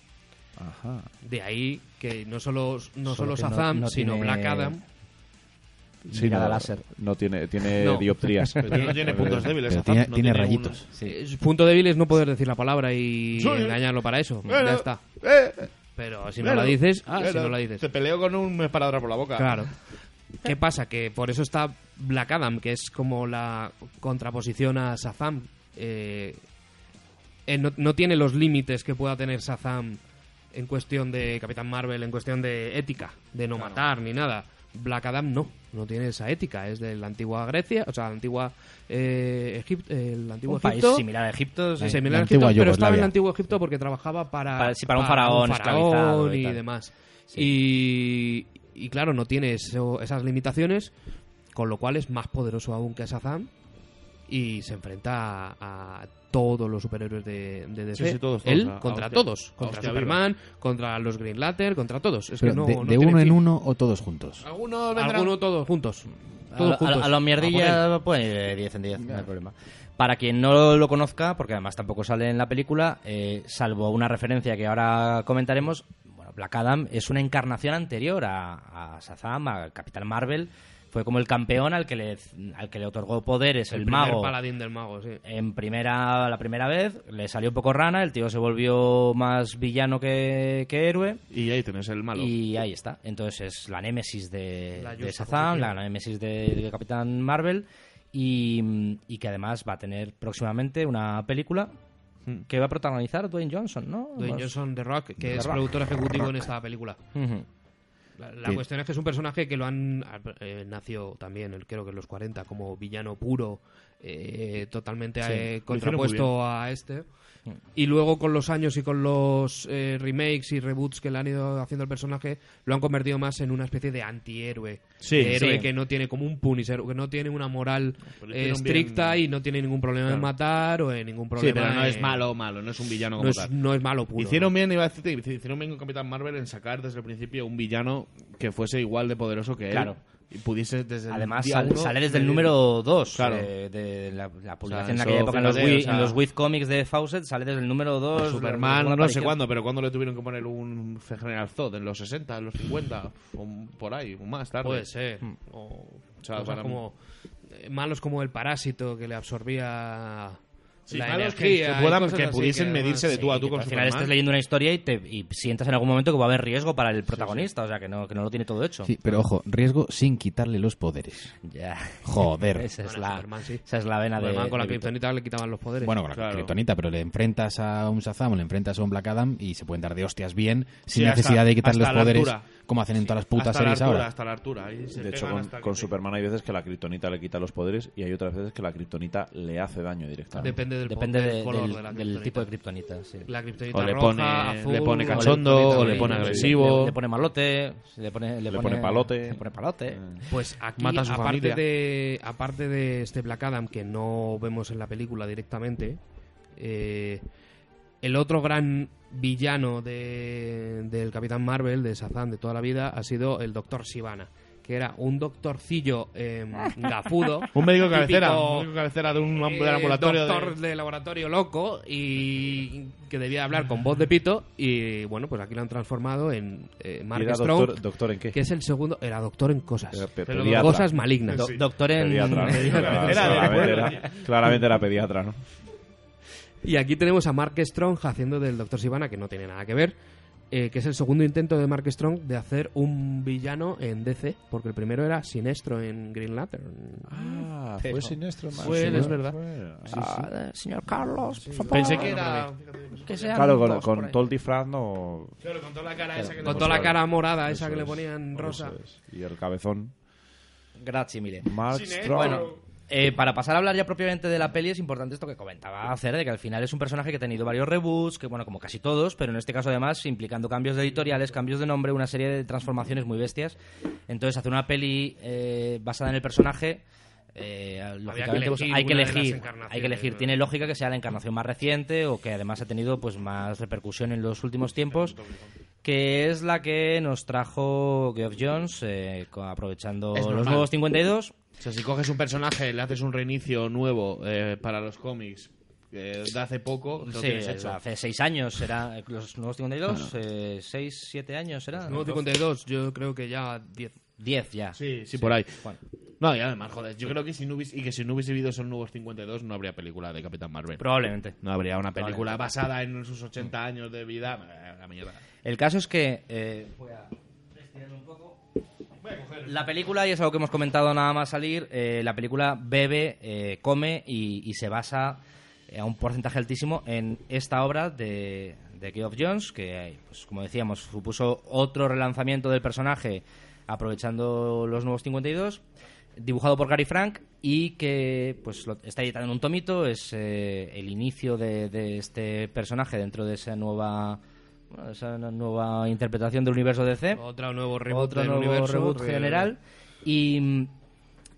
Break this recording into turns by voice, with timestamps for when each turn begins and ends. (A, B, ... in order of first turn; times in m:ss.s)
0:00.6-0:01.1 A
0:01.2-0:04.8 B
0:03.1-0:04.8 C
0:06.1-0:06.8 C
0:06.1-0:09.6 A
0:07.8-0:08.1 B
0:08.6-0:10.8 D
0:08.6-0:09.0 B
0:09.2-0:10.9 E
0:11.0-0:15.2 B
0:13.4-0:13.8 D
0:14.5-0:15.7 D
0:16.0-0:17.8 B
0:16.4-0:19.7 D
0:19.4-0:19.8 B
0:20.4-0:26.4 B
0:27.5-0:30.0 B
0:30.5-0:41.0 B
0:40.5-0:42.2 C
0:41.8-0:43.1 E
0:41.8-0:50.9 B
0:44.6-0:46.6 C
0:51.5-0:53.5 B
0:54.3-1:03.4 B
0:57.9-1:00.2 D
1:02.4-1:04.4 E
1:04.4-1:05.4 D
1:04.9-1:07.8 B
1:06.5-1:24.4 C
1:23.7-1:25.2 B
1:25.2-1:31.2 C
1:31.3-1:32.3 D
1:32.2-1:41.7 C
1:34.8-1:35.8 B
1:42.5-1:44.5 C
1:44.2-1:47.0 B
1:45.3-1:45.6 C
1:47.2-1:47.5 C
1:48.2-1:57.0 B
1:55.2-1:55.5 C
1:55.7-1:56.3 D
1:57.8-2:12.3 B
2:05.0-2:05.5 D
2:05.2-2:05.7 C
2:08.2-2:09.2 D
2:10.1-2:10.3 D
2:11.4-2:13.5 D
2:13.2-2:14.5 B
2:14.2-2:22.6 D
2:19.7-2:20.0 C
2:21.1-2:29.4 C
2:23.1-2:23.5 D
2:24.7-2:26.2 D
2:28.1-2:34.9 D
2:34.6-2:37.0 B
2:36.2-2:36.8 D
2:37.5-2:40.4 B
2:40.9-2:44.1 D
2:40.9-2:43.2 B
2:43.2-2:49.0 C
2:47.1-2:47.5 D
2:48.8-2:51.3 E
2:51.4-2:54.9 C
2:52.0-2:52.7 E
2:52.8-2:53.6 B
2:54.2-2:56.0 B
2:55.8-3:04.1 E
2:56.1-2:56.5 D
3:00.9-3:02.5 D
3:03.2-3:05.9 D
3:05.0-3:10.6 A
3:10.4-3:12.5 B
3:10.4-3:13.3 C
3:13.3-3:16.6 B
3:13.7-3:17.0 D
3:15.1-3:20.0 C
3:18.5-3:20.3 A
3:20.3-3:26.0 B
3:20.8-3:21.6 D
3:26.6-3:27.2 B
3:28.0-3:38.7 B
3:37.5-3:40.6 D
3:39.3-3:51.5 B
3:47.1-3:48.4 A
3:49.9-3:50.9 A
3:50.3-3:50.7 D
3:51.3-3:51.7 D
3:51.3-3:53.8 C
3:51.7-3:55.4 A
3:52.3-3:54.0 B
3:52.6-3:54.2 D
3:56.6-4:00.0 B
4:00.5-4:07.5 B
4:07.1-4:10.3 A
4:07.8-4:09.2 C
4:08.6-4:09.3 B
4:08.6-4:09.4 D
4:09.9-4:12.3 C
4:11.6-4:13.4 D
4:11.7-4:12.5 B
4:11.8-4:12.1 A
4:13.0-4:14.2 C
4:13.3-4:15.4 A
4:15.4-4:17.0 D
4:16.4-4:19.9 A
4:16.4-4:18.8 B
4:20.8-4:33.6 C
4:21.4-4:22.5 A
4:21.7-4:22.4 B
4:21.8-4:22.5 D
4:34.1-4:36.8 C
4:37.4-4:45.2 C
4:38.1-4:40.4 B
4:44.8-4:45.5 D
4:45.8-4:51.3 C
4:50.1-4:50.7 D
4:51.6-4:57.8 D
4:57.0-5:02.1 C
5:01.9-5:04.0 B
5:04.2-5:05.8 C
5:04.8-5:05.6 D
5:06.2-5:15.2 D
5:10.8-5:11.4 C
5:12.0-5:12.5 C
5:15.4-5:18.4 C
5:19.0-5:19.6 D
5:19.4-5:35.6 C
5:36.2-5:47.2 C
5:47.2-5:49.5 B
5:47.9-5:50.7 C